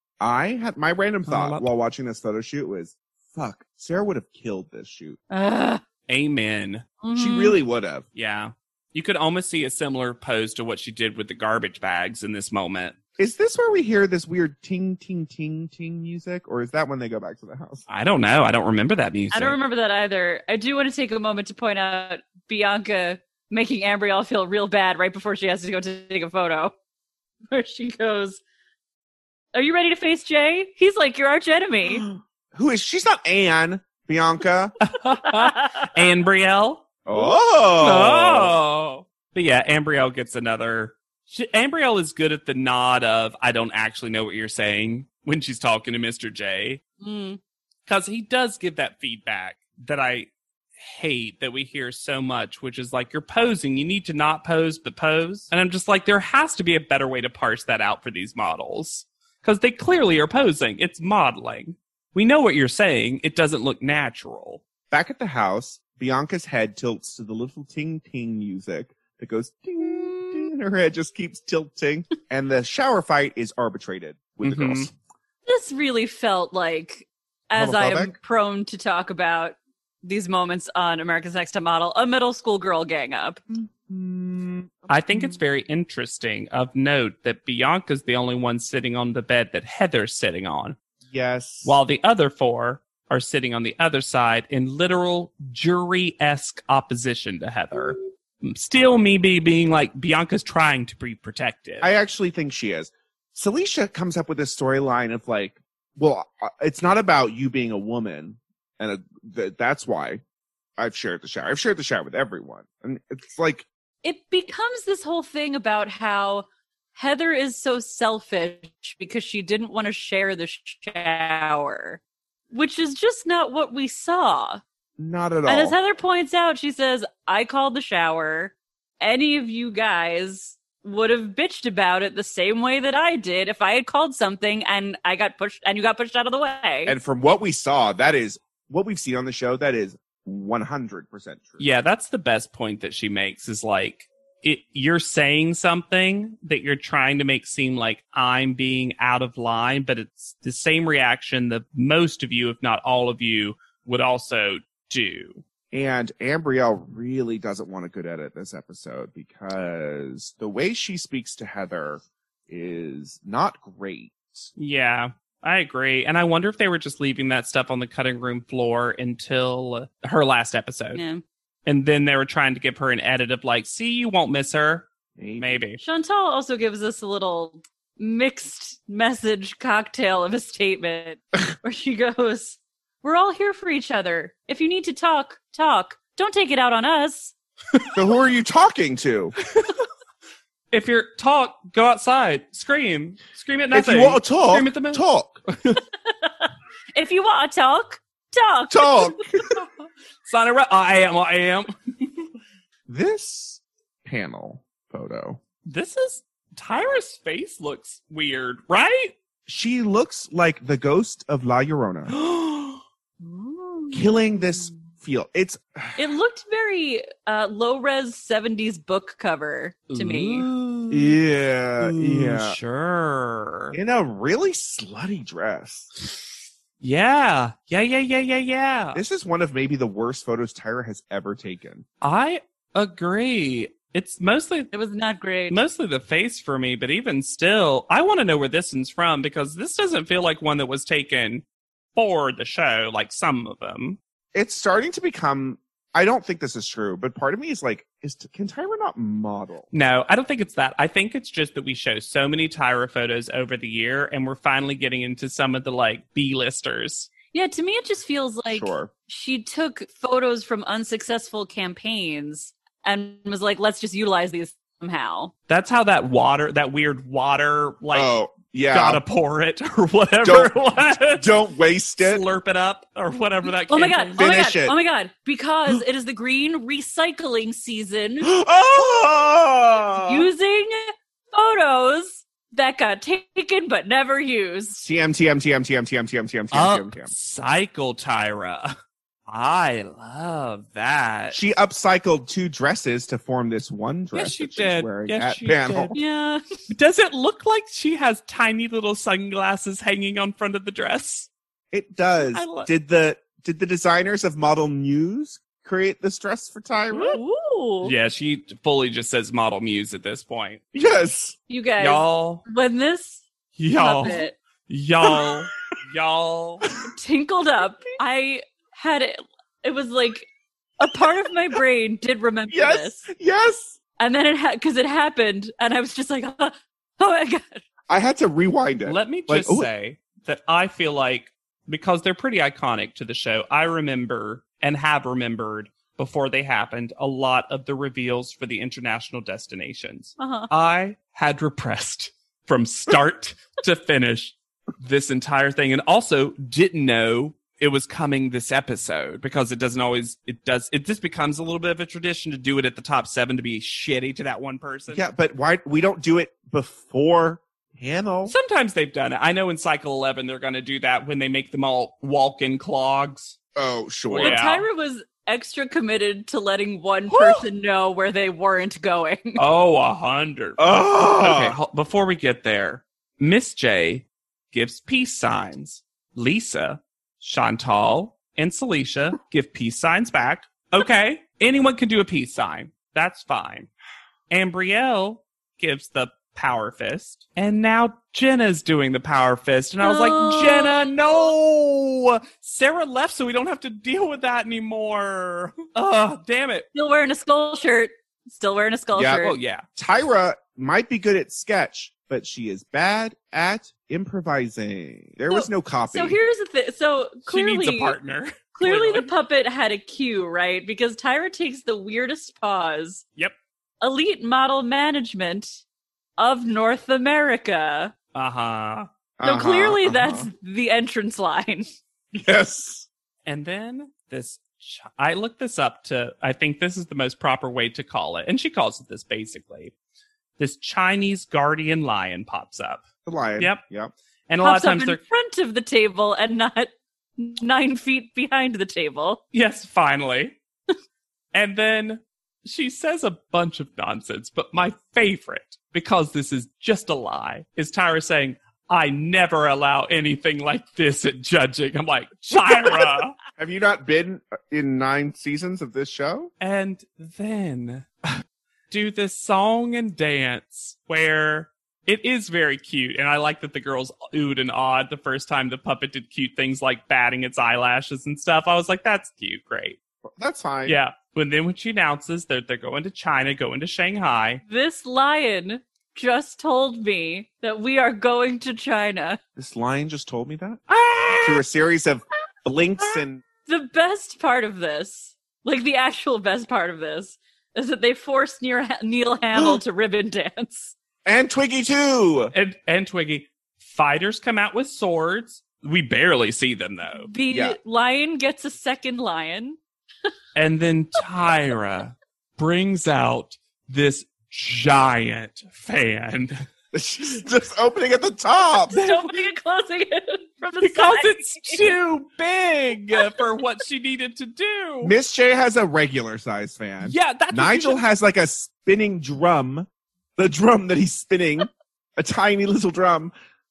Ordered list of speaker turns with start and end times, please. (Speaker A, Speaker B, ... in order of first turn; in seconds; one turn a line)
Speaker A: 0.2-5.2
Speaker B: 1.3-1.7
Speaker C: 5.3-5.8
Speaker B: 6.1-6.8
Speaker C: 7.0-7.6
Speaker A: 7.1-8.0
Speaker B: 8.2-12.9
Speaker A: 13.2-17.8
Speaker B: 17.9-19.6
Speaker C: 19.3-26.7
Speaker C: 27.5-28.4
Speaker C: 29.5-32.1
Speaker A: 32.1-34.7
Speaker B: 34.8-36.8
Speaker C: 35.4-35.8
Speaker A: 37.0-38.5
Speaker B: 37.8-46.8
Speaker C: 47.0-47.4
Speaker B: 47.9-64.6
Speaker A: 64.9-74.9
Speaker B: 74.4-74.9
Speaker C: 75.5-83.4
Speaker A: 77.5-78.1
Speaker A: 83.5-85.4
Speaker B: 84.9-90.8
Speaker A: 91.1-91.8
Speaker B: 91.6-101.9
Speaker A: 101.8-110.2
Speaker A: 110.8-113.7
Speaker C: 114.0-122.0
Speaker C: 122.5-124.6
Speaker A: 125.0-125.7
Speaker C: 125.5-137.0
Speaker A: 136.8-141.6
Speaker B: 141.6-155.4
Speaker A: 155.7-164.5
Speaker B: 164.6-171.0
Speaker C: 170.9-171.2
Speaker B: 171.7-174.9
Speaker A: 175.2-175.6
Speaker B: 175.4-175.8
Speaker C: 175.8-187.3
Speaker A: 187.9-189.3
Speaker B: 189.4-189.8
Speaker B: 190.7-195.8
Speaker A: 193.7-195.4
Speaker C: 196.9-199.2
Speaker A: 198.7-199.4
Speaker B: 200.3-202.3
Speaker A: 202.9-205.4
Speaker B: 205.6-209.1
Speaker A: 209.5-212.1
Speaker B: 212.1-212.8
Speaker A: 213.9-216.1
Speaker C: 216.0-220.5
Speaker B: 219.9-221.2
Speaker A: 220.9-222.6
Speaker B: 221.8-223.8
Speaker A: 223.7-225.9
Speaker B: 226.8-229.0
Speaker A: 228.9-231.8
Speaker B: 232.0-234.7
Speaker C: 234.7-235.6
Speaker B: 235.5-241.4
Speaker B: 241.9-244.0
Speaker A: 244.3-249.7
Speaker B: 249.7-257.1
Speaker C: 257.3-265.3
Speaker A: 258.5-258.9
Speaker B: 265.5-268.1
Speaker A: 267.9-269.0
Speaker B: 268.7-271.3
Speaker A: 270.2-272.2
Speaker B: 272.0-274.4
Speaker C: 273.7-278.3
Speaker A: 274.2-274.7
Speaker A: 278.2-280.3
Speaker C: 280.0-284.8
Speaker A: 284.8-287.1
Speaker B: 286.5-288.7
Speaker B: 289.3-291.4
Speaker A: 291.3-295.9
Speaker B: 294.1-296.0
Speaker C: 295.9-296.4
Speaker B: 296.7-301.3
Speaker A: 301.7-307.2
Speaker B: 302.2-302.7
Speaker C: 306.9-307.9
Speaker B: 307.8-310.6
Speaker A: 310.7-311.4
Speaker C: 311.5-314.4
Speaker B: 311.8-312.4
Speaker B: 313.6-316.7
Speaker C: 316.9-323.0
Speaker A: 322.5-323.8
Speaker C: 324.0-327.6
Speaker A: 327.9-329.7
Speaker B: 328.9-355.0
Speaker C: 340.2-340.5
Speaker A: 354.9-358.3
Speaker B: 358.3-363.4
Speaker A: 363.5-364.4
Speaker B: 364.1-364.6
Speaker C: 364.2-369.4
Speaker B: 367.1-367.4
Speaker B: 369.4-383.7
Speaker A: 370.6-371.6
Speaker B: 384.3-396.7
Speaker C: 389.8-390.9
Speaker C: 396.7-399.4
Speaker A: 398.9-399.2
Speaker B: 399.2-399.6
Speaker A: 399.8-406.2
Speaker C: 405.3-408.0
Speaker B: 407.3-409.1
Speaker C: 408.6-413.0
Speaker C: 413.8-415.6
Speaker C: 416.2-417.9
Speaker B: 418.1-418.9
Speaker A: 419.2-420.3
Speaker C: 419.2-421.7
Speaker A: 422.1-422.9
Speaker B: 423.2-429.7
Speaker B: 430.4-432.8
Speaker A: 433.0-433.9
Speaker B: 434.3-435.0
Speaker C: 434.4-439.2
Speaker B: 439.3-440.4
Speaker B: 441.3-453.1
Speaker A: 453.4-456.3
Speaker B: 456.4-458.1
Speaker B: 458.7-469.8
Speaker A: 470.2-470.8
Speaker B: 470.6-474.4
Speaker C: 474.5-479.2
Speaker A: 479.4-480.6
Speaker B: 480.7-481.4
Speaker A: 481.2-483.2
Speaker C: 483.4-490.7
Speaker A: 489.3-489.6
Speaker A: 491.0-492.3
Speaker B: 492.3-497.1
Speaker C: 497.1-499.6
Speaker A: 497.3-497.6
Speaker B: 500.3-506.4
Speaker A: 506.7-508.7
Speaker C: 508.7-511.6
Speaker B: 508.7-509.1
Speaker B: 510.6-514.9
Speaker A: 514.8-523.1
Speaker B: 516.8-517.8